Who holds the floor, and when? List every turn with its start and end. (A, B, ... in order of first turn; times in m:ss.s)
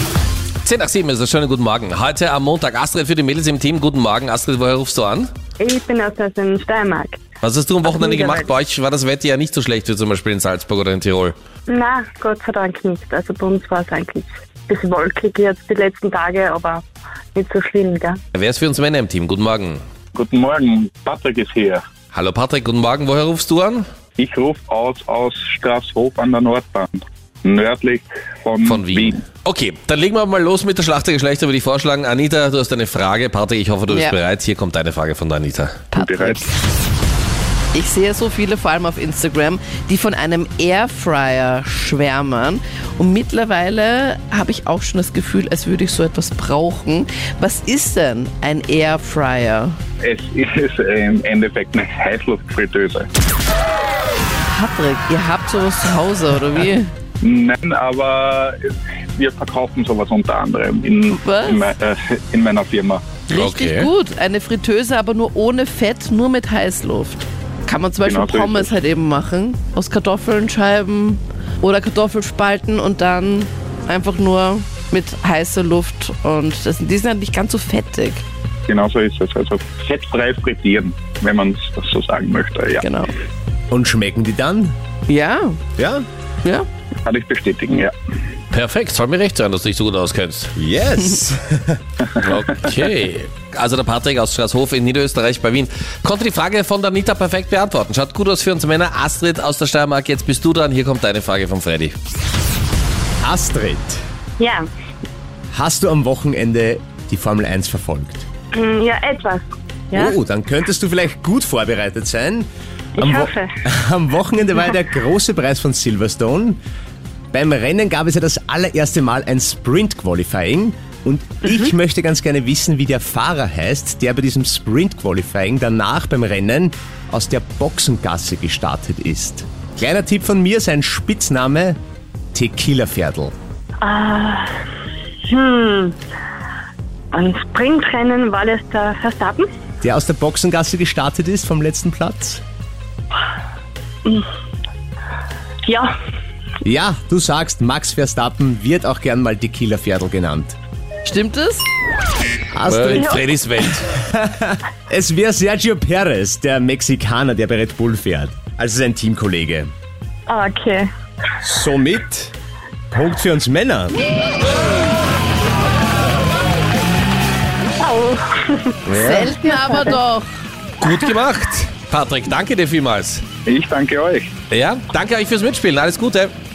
0:00.6-0:05.3 A
0:05.6-0:07.2 B
0:07.4-0:11.4 A
0:07.8-0:08.5 B
0:11.7-0:18.2 B
0:18.3-0:19.8 A
0:20.1-0:21.8 C
0:22.1-0:23.8 A
0:24.2-0:29.2 C
0:28.6-0:35.8 A
0:33.9-0:34.2 D
0:35.9-0:36.5 D
0:35.9-0:36.5 C
0:37.7-0:49.8 D
0:50.0-0:53.1 C
0:54.5-0:56.9 D
0:57.2-1:03.1 C
1:01.1-1:01.7 D
1:03.3-1:18.2 D
1:03.3-1:03.9 A
1:08.0-1:08.7 C
1:18.7-1:22.8 C
1:22.8-1:23.1 D
1:23.7-1:24.8 E
1:25.1-1:25.6 D
1:25.8-1:26.0 E
1:27.0-1:27.9 C
1:28.5-1:30.5 A
1:30.6-1:31.8 E
1:32.0-1:32.3 C
1:32.2-1:42.0 A
1:43.2-1:44.0 E
1:44.4-1:44.7 B
1:45.5-1:48.2 E
1:48.5-1:50.2 B
1:49.9-1:56.6 E
1:53.0-1:53.5 B
1:57.3-2:11.8 E
2:12.3-2:13.3 E
2:13.8-2:14.5 B
2:15.2-2:16.0 B
2:17.1-2:19.5 B
2:19.8-2:22.4 E
2:25.7-2:25.9 B
2:26.6-2:30.6 E
2:31.0-2:31.7 D
2:32.5-2:33.2 E
2:32.6-2:34.0 A
2:32.9-2:33.3 B
2:33.9-2:39.7 E
2:40.3-2:40.9 B
2:41.4-2:42.4 E
2:42.9-2:44.0 E
2:47.8-2:50.0 B
2:48.9-2:50.3 D
2:50.8-2:53.2 A
2:53.5-2:54.3 C
2:54.5-2:56.3 A